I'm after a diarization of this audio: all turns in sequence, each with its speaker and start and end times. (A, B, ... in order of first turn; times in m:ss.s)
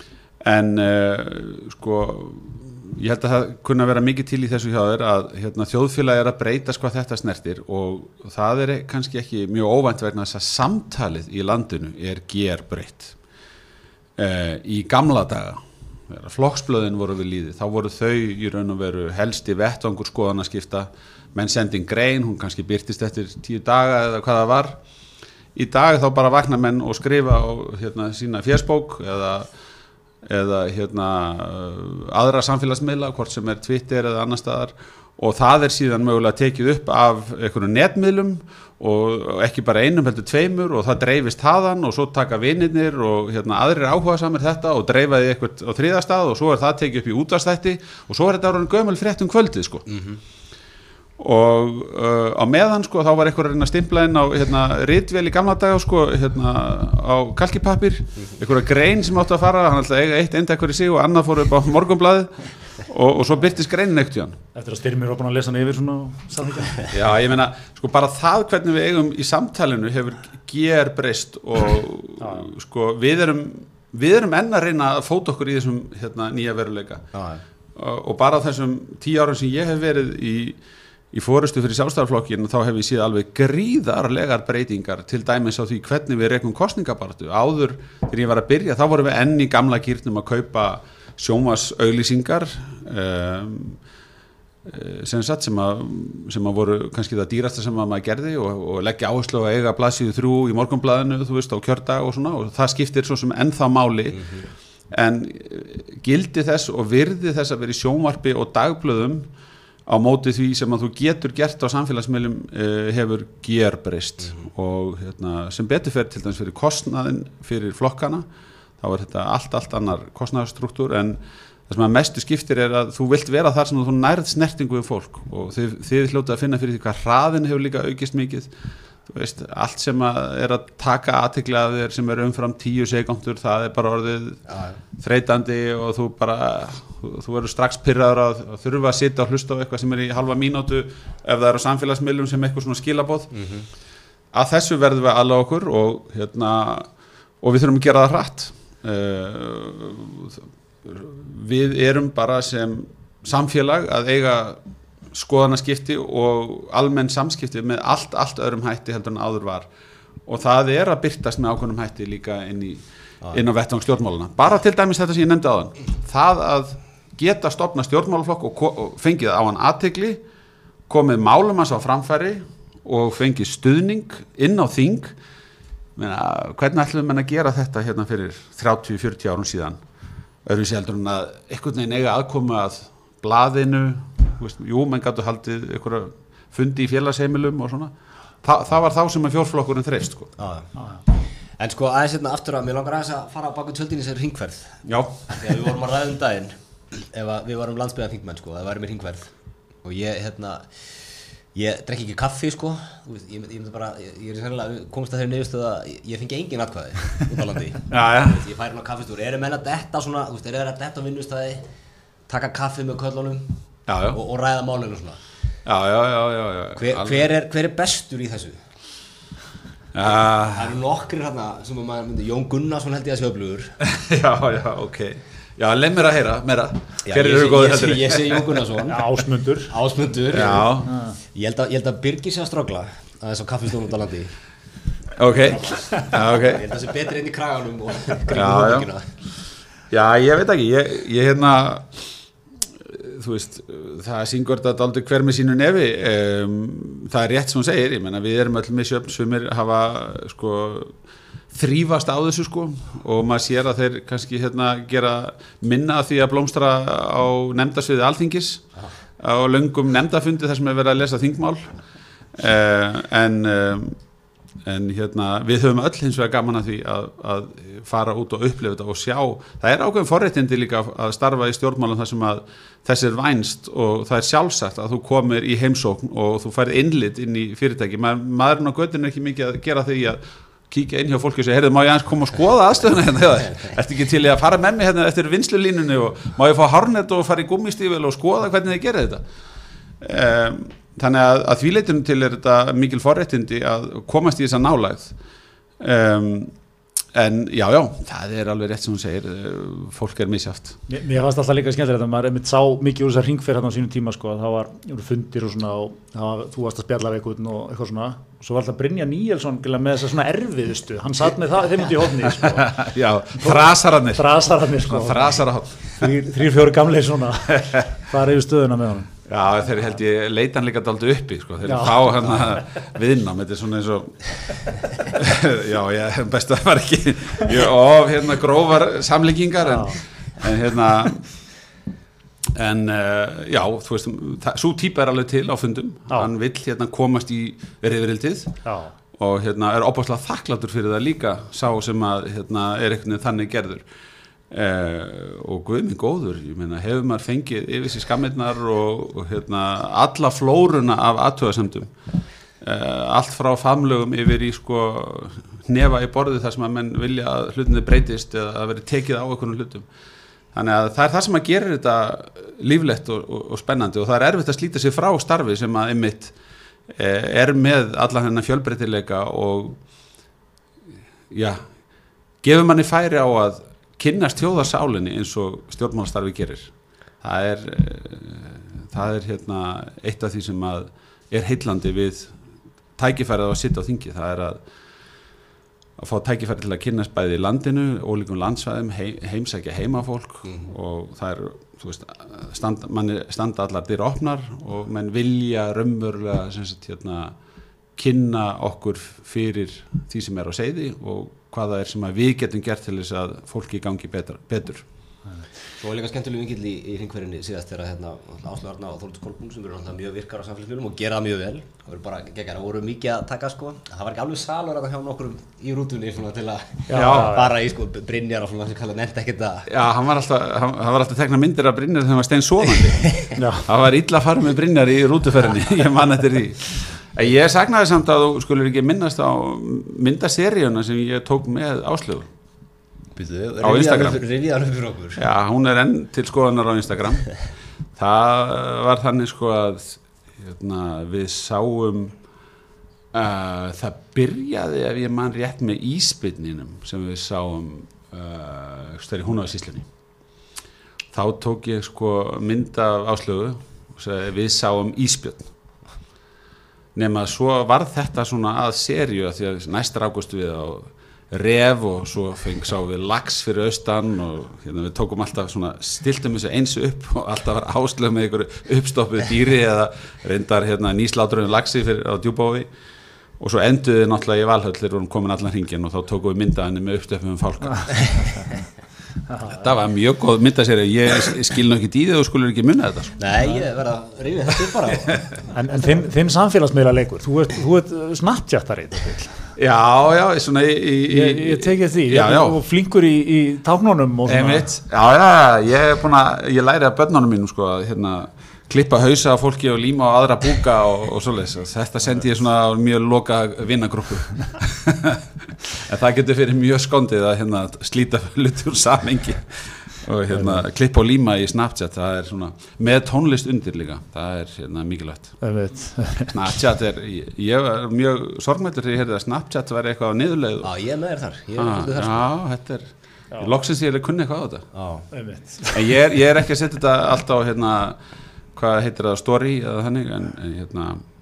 0:00.4-0:13.2 A
0:14.2-0:24.8 A
0:25.5-0:29.5 A
0:30.2-0:49.8 A
0:49.9-0:50.2 B
0:51.2-1:04.4 A
1:04.5-1:06.9 C
1:06.9-1:17.0 A
1:12.2-1:12.5 C
1:17.1-1:17.4 B
1:17.7-1:20.6 A
1:21.1-1:33.8 A
1:34.6-1:44.2 A
1:44.1-1:44.5 B
1:44.9-1:49.3 A
1:49.9-1:58.2 A
1:58.8-2:08.5 A
2:09.1-2:14.4 A
2:14.5-2:14.8 B
2:15.0-2:23.3 A
2:23.3-2:23.7 B
2:24.3-2:26.9 A
2:27.4-2:34.6 A
2:35.1-2:39.7 A
2:40.2-2:50.2 A
2:50.9-2:55.1 A
2:56.0-2:59.8 A
3:00.4-3:10.3 A
3:10.4-3:10.7 B
3:11.6-3:19.3 B
3:14.8-3:15.2 A
3:19.8-3:31.6 B
3:27.9-3:28.4 A
3:32.3-3:33.6 B
3:33.9-3:34.2 A
3:34.1-3:35.2 B
3:35.6-3:37.3 A
3:36.8-3:38.6 B
3:39.9-3:40.7 A
3:40.4-3:43.7 B
3:43.8-3:48.6 A
3:47.0-3:49.2 B
3:48.9-3:49.7 C
3:49.7-3:54.3 B
3:50.3-3:50.9 A
3:50.9-3:51.2 C
3:55.2-3:56.8 A
3:55.4-3:59.1 B
3:58.3-3:58.9 A
3:59.9-4:02.0 A
4:02.8-4:10.9 A
4:11.5-4:18.6 A
4:19.2-4:21.7 A
4:22.3-4:24.0 A
4:24.6-4:49.2 A
4:50.0-4:55.1 A
4:55.8-4:56.5 A
4:57.1-5:00.8 A
5:00.9-5:12.7 C
5:12.3-5:16.1 A
5:13.3-5:19.1 C
5:19.3-5:31.2 A
5:21.6-5:22.1 C
5:29.6-5:30.0 C
5:32.5-5:38.5 A
5:38.6-5:38.9 C
5:39.2-5:43.8 A
5:44.5-5:51.9 A
5:52.6-5:59.8 A
6:00.5-6:06.3 A
6:06.9-6:09.8 A
6:11.3-6:11.6 A
6:12.4-6:22.3 A
6:23.0-6:24.6 A
6:26.0-6:37.3 A
6:30.4-6:30.7 B
6:38.0-6:44.8 A
6:45.8-6:59.7 B
6:56.9-6:57.5 C
6:56.9-6:57.4 A
6:59.7-7:12.3 A
7:03.3-7:03.7 C
7:13.2-7:15.2 B
7:13.6-7:14.2 A
7:15.2-7:17.3 A
7:18.0-7:22.1 A
7:23.1-7:29.9 A
7:31.1-7:35.5 A
7:36.9-7:52.7 A
7:53.4-7:58.3 A
7:59.4-8:03.2 A
8:03.2-8:05.3 B
8:05.5-8:09.4 C
8:09.6-8:12.6 A
8:11.1-8:14.7 C
8:14.3-8:35.4 A
8:30.3-8:30.6 C
8:35.4-8:36.4 C
8:36.3-8:40.7 A
8:40.6-8:42.3 B
8:41.6-8:44.7 A
8:44.7-8:45.1 B
8:45.1-8:45.9 C
8:45.7-8:48.0 A
8:48.5-8:51.0 A